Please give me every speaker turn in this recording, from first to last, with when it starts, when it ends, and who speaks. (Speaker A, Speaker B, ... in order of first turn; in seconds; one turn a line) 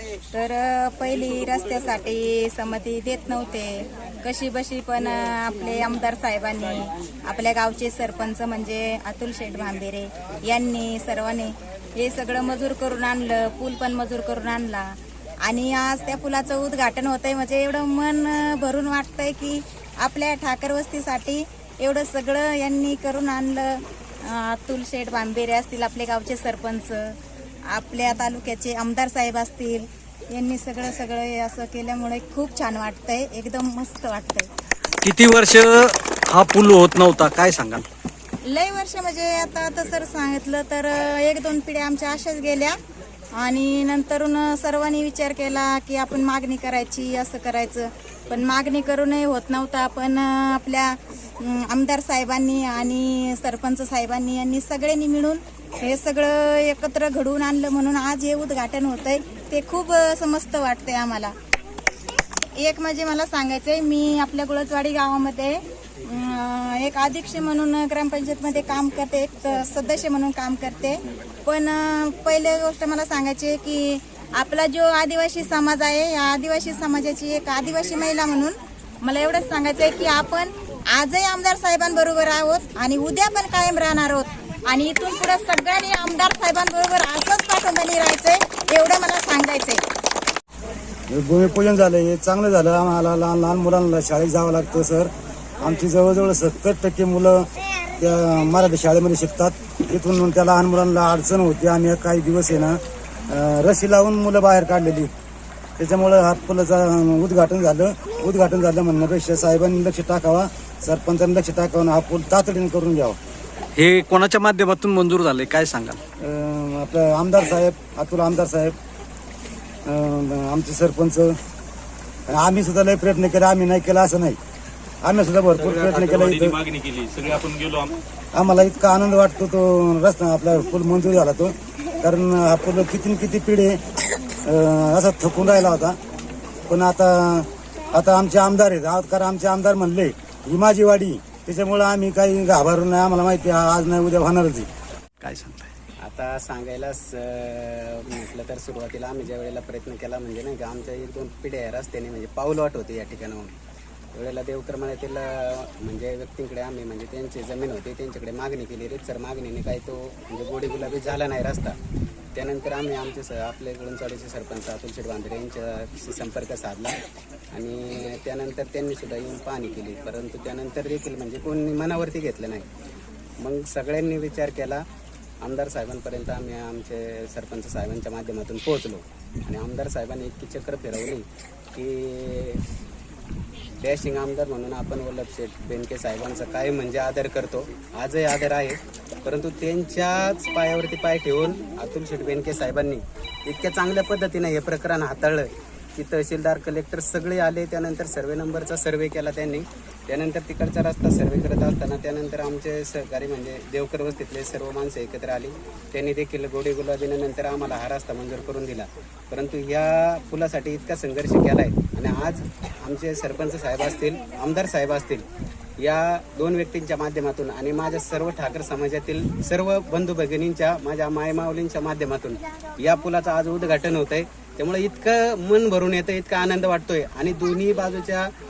Speaker A: 0.3-27.1
Speaker A: 27.7-34.5
Speaker B: 35.0-37.8
Speaker A: 38.4-42.8
Speaker A: 43.4-61.3
Speaker A: 62.5-89.8
Speaker C: 91.1-97.5
Speaker C: 98.0-102.8
Speaker C: 103.3-105.1
Speaker C: 105.8-113.2
Speaker B: 113.8-116.0
Speaker C: 116.2-118.8
Speaker C: 119.8-121.3
Speaker C: 122.3-124.4
Speaker C: 125.0-126.6
Speaker D: 125.6-127.9
Speaker C: 128.3-133.8
Speaker C: 134.4-135.9
Speaker C: 136.7-144.7
Speaker B: 145.2-145.7
Speaker E: 146.0-153.6
Speaker E: 154.1-161.8
Speaker E: 162.3-167.0
Speaker E: 167.5-172.7
Speaker E: 173.4-174.8
Speaker E: 175.4-182.6
Speaker E: 183.8-215.2
Speaker E: 215.8-228.3